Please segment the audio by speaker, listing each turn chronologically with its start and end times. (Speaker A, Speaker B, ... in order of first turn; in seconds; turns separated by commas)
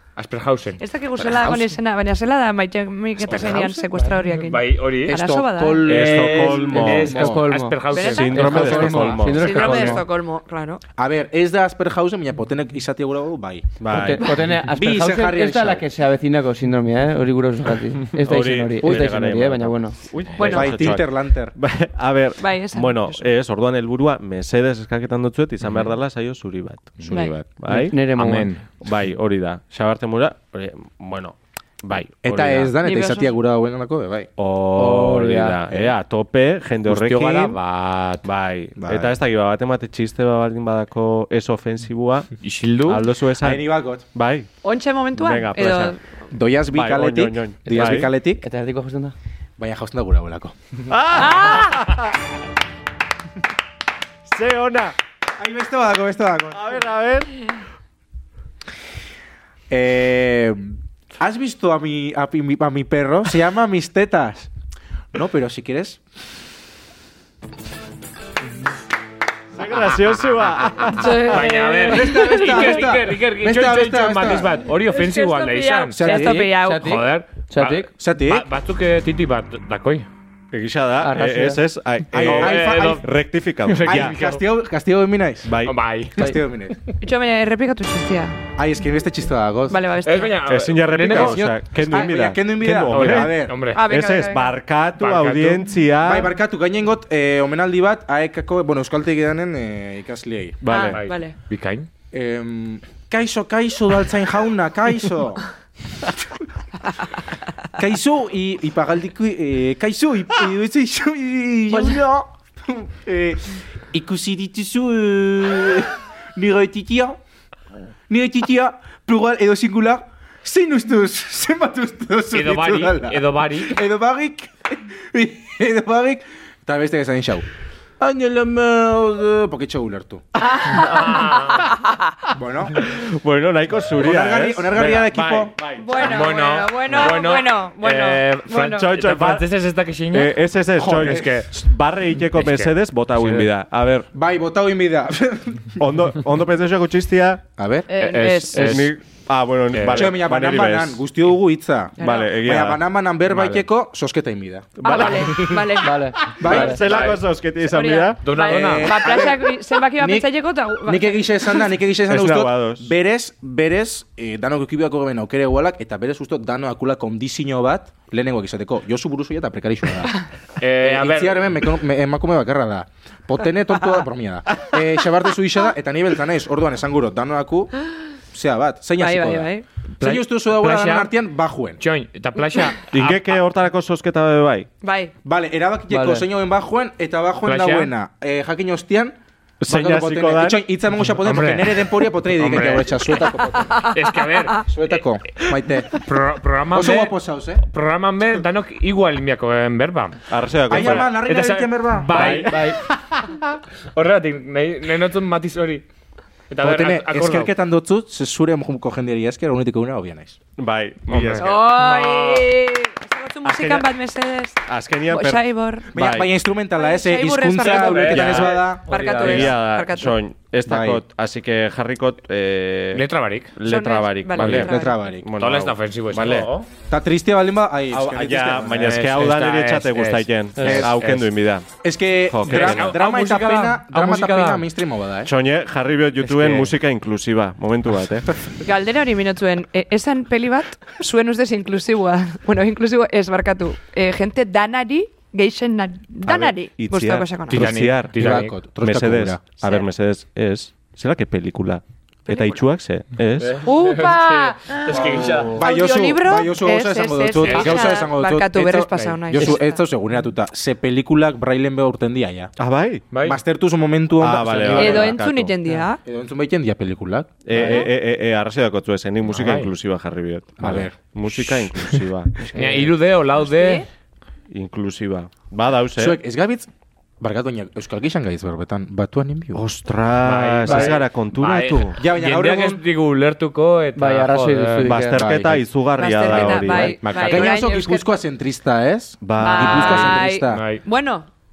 Speaker A: 0.1-0.8, Speaker B: 0.8-6.0, Speaker C: 1.1-1.7, Speaker C: 3.2-3.8, Speaker A: 4.3-5.2, Speaker C: 5.0-7.5, Speaker A: 5.8-9.7, Speaker D: 5.8-7.3, Speaker E: 6.8-10.0, Speaker B: 7.9-8.4, Speaker D: 8.0-9.9, Speaker C: 8.3-9.2, Speaker B: 9.2-10.8, Speaker C: 11.0-13.7, Speaker D: 13.8-14.2, Speaker E: 13.9-20.0, Speaker C: 14.7-15.8, Speaker D: 18.1-28.0, Speaker C: 18.8-19.1, Speaker B: 20.3-20.9, Speaker C: 20.4-21.6, Speaker B: 22.4-23.2, Speaker A: 27.0-27.3, Speaker C: 27.0-27.4, Speaker E: 27.7-28.5, Speaker A: 28.1-28.6, Speaker D: 28.8-32.7, Speaker C: 32.2-34.3, Speaker B: 32.8-33.3, Speaker D: 34.4-37.6, Speaker E: 34.8-35.6, Speaker A: 36.8-38.2, Speaker D: 38.2-42.3, Speaker C: 38.8-39.1, Speaker A: 42.4-43.1, Speaker D: 42.9-44.5, Speaker C: 43.4-44.0, Speaker B: 44.6-46.0, Speaker D: 45.1-46.0, Speaker C: 46.3-48.4, Speaker D: 46.7-48.1, Speaker E: 47.8-49.1, Speaker C: 49.6-50.5, Speaker D: 50.9-52.1, Speaker B: 51.1-51.9, Speaker D: 54.2-55.0, Speaker C: 55.4-56.8, Speaker D: 56.5-57.3, Speaker C: 59.7-64.5, Speaker C: 65.1-66.0, Speaker D: 69.5-71.5, Speaker B: 70.9-72.6, Speaker A: 71.2-80.1, Speaker C: 71.9-74.5, Speaker B: 74.9-76.9, Speaker C: 75.9-76.5, Speaker E: 76.6-77.9, Speaker C: 77.9-78.5, Speaker D: 80.5-84.2, Speaker E: 81.0-81.6, Speaker C: 82.1-83.0, Speaker A: 82.2-83.0, Speaker A: 83.6-84.4, Speaker C: 83.8-85.5, Speaker D: 85.4-85.7, Speaker A: 85.6-86.3, Speaker C: 86.2-86.8, Speaker B: 87.0-88.4, Speaker C: 88.6-89.8, Speaker B: 89.7-90.4, Speaker A: 90.0-91.4, Speaker D: 90.5-96.3, Speaker C: 91.1-93.5, Speaker A: 92.9-93.8, Speaker B: 93.7-94.5, Speaker A: 95.0-95.7, Speaker C: 96.0-100.6, Speaker D: 100.6-101.0, Speaker B: 100.7-101.3, Speaker A: 100.8-101.9, Speaker C: 102.1-105.4, Speaker C: 107.8-117.2, Speaker B: 111.7-112.0, Speaker C: 118.1-127.5, Speaker A: 122.3-123.8, Speaker C: 128.0-130.2, Speaker B: 130.4-132.3, Speaker A: 130.7-131.6, Speaker C: 132.3-132.8, Speaker D: 132.8-134.8, Speaker C: 134.0-135.5, Speaker A: 134.8-140.3, Speaker D: 135.5-136.3, Speaker B: 135.8-138.9, Speaker D: 138.6-139.5, Speaker D: 140.1-144.1, Speaker C: 140.8-141.3, Speaker A: 140.9-141.5, Speaker A: 142.3-143.5, Speaker C: 144.1-145.8, Speaker D: 145.8-147.4, Speaker C: 147.6-147.9, Speaker B: 147.9-148.8, Speaker A: 148.0-148.9, Speaker D: 148.5-151.0, Speaker A: 149.7-150.1, Speaker C: 149.9-155.6, Speaker B: 152.0-152.3, Speaker D: 152.0-152.8, Speaker A: 153.3-153.6, Speaker D: 154.8-155.7, Speaker B: 154.8-156.0, Speaker E: 155.8-156.8, Speaker D: 156.3-158.2, Speaker C: 156.4-157.1, Speaker A: 156.8-157.2, Speaker B: 157.6-161.7, Speaker A: 158.2-158.9, Speaker C: 158.4-160.3, Speaker C: 160.8-170.2, Speaker D: 162.1-162.9, Speaker A: 170.6-171.6, Speaker C: 170.8-177.7, Speaker C: 178.3-181.8, Speaker B: 179.0-179.7, Speaker A: 180.0-181.1, Speaker A: 181.8-183.2, Speaker D: 182.9-184.7, Speaker B: 184.8-185.1, Speaker C: 185.2-193.8, Speaker E: 185.9-186.2, Speaker A: 187.4-187.9, Speaker D: 189.6-190.6, Speaker A: 191.1-194.7, Speaker B: 193.6-194.6, Speaker C: 194.6-196.0, Speaker A: 195.9-202.8, Speaker C: 196.7-197.6, Speaker D: 200.3-201.2, Speaker C: 200.7-202.6, Speaker D: 202.1-202.8, Speaker E: 202.3-202.8, Speaker A: 203.9-205.8, Speaker A: 206.5-207.5, Speaker C: 206.6-210.4, Speaker D: 210.6-211.6, Speaker A: 211.1-212.5, Speaker B: 211.4-215.9, Speaker D: 213.4-213.9, Speaker D: 214.7-216.3, Speaker C: 215.9-219.2, Speaker B: 216.8-220.1, Speaker A: 217.6-219.5, Speaker D: 218.1-226.5, Speaker C: 220.7-221.0, Speaker A: 222.9-223.5, Speaker B: 223.6-225.0, Speaker C: 224.4-225.3, Speaker A: 224.4-224.7, Speaker A: 225.4-226.7, Speaker C: 226.9-229.0, Speaker D: 227.9-231.7, Speaker A: 228.8-231.3, Speaker C: 230.6-230.9, Speaker C: 231.8-235.3, Speaker D: 232.2-233.0, Speaker A: 232.4-234.6, Speaker D: 235.2-238.4, Speaker A: 236.2-236.7, Speaker B: 238.6-247.7, Speaker D: 246.2-248.2, Speaker A: 247.5-248.5, Speaker C: 247.7-249.4, Speaker D: 248.8-253.6, Speaker B: 252.3-252.6, Speaker A: 253.4-255.6, Speaker B: 253.6-255.0, Speaker C: 254.9-262.5, Speaker B: 255.5-259.8, Speaker A: 257.4-258.1, Speaker D: 262.6-263.0, Speaker A: 263.1-263.4, Speaker C: 263.2-265.3, Speaker D: 264.2-265.5, Speaker B: 264.7-266.0, Speaker C: 266.0-267.9, Speaker D: 267.4-272.4, Speaker A: 269.2-269.7, Speaker C: 270.6-272.9, Speaker A: 272.5-273.9, Speaker B: 273.4-273.9, Speaker D: 274.5-276.2, Speaker C: 276.0-276.7, Speaker C: 277.2-279.6, Speaker D: 279.5-282.0, Speaker A: 280.2-284.9, Speaker C: 282.0-282.8, Speaker E: 283.9-285.3, Speaker D: 284.8-287.0, Speaker C: 285.1-285.6, Speaker B: 285.9-288.1, Speaker E: 286.6-286.9, Speaker C: 287.0-290.6, Speaker D: 289.2-290.2, Speaker B: 289.4-291.3, Speaker A: 290.5-290.8